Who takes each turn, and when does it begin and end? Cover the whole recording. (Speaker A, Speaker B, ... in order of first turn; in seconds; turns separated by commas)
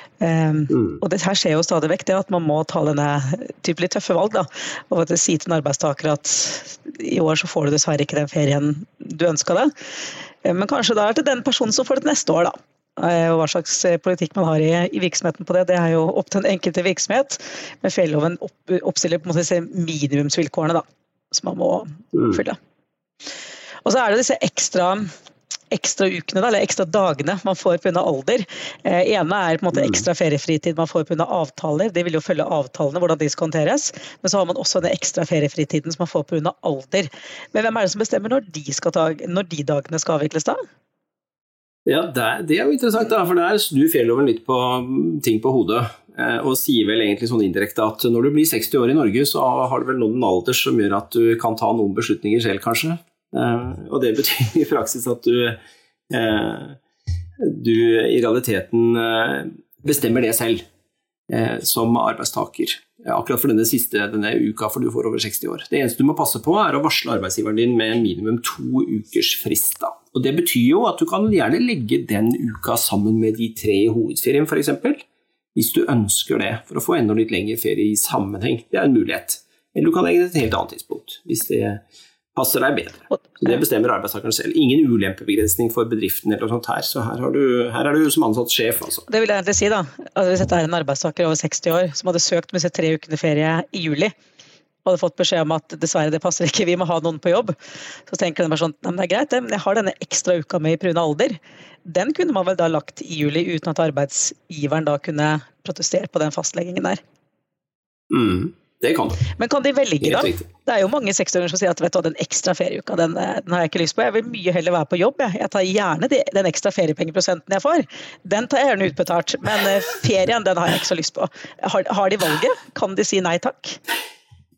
Speaker A: 0.2-9.7, Speaker A: 10.4-22.6, Speaker A: 23.9-25.1, Speaker A: 25.7-40.6, Speaker B: 29.8-30.0, Speaker B: 41.9-55.6, Speaker B: 56.1-56.8, Speaker B: 57.4-60.6, Speaker B: 61.3-81.8, Speaker B: 82.3-89.1, Speaker A: 89.1-94.1, Speaker A: 94.8-97.6, Speaker A: 98.1-107.0, Speaker B: 108.1-109.3, Speaker A: 109.3-123.8, Speaker B: 110.0-110.5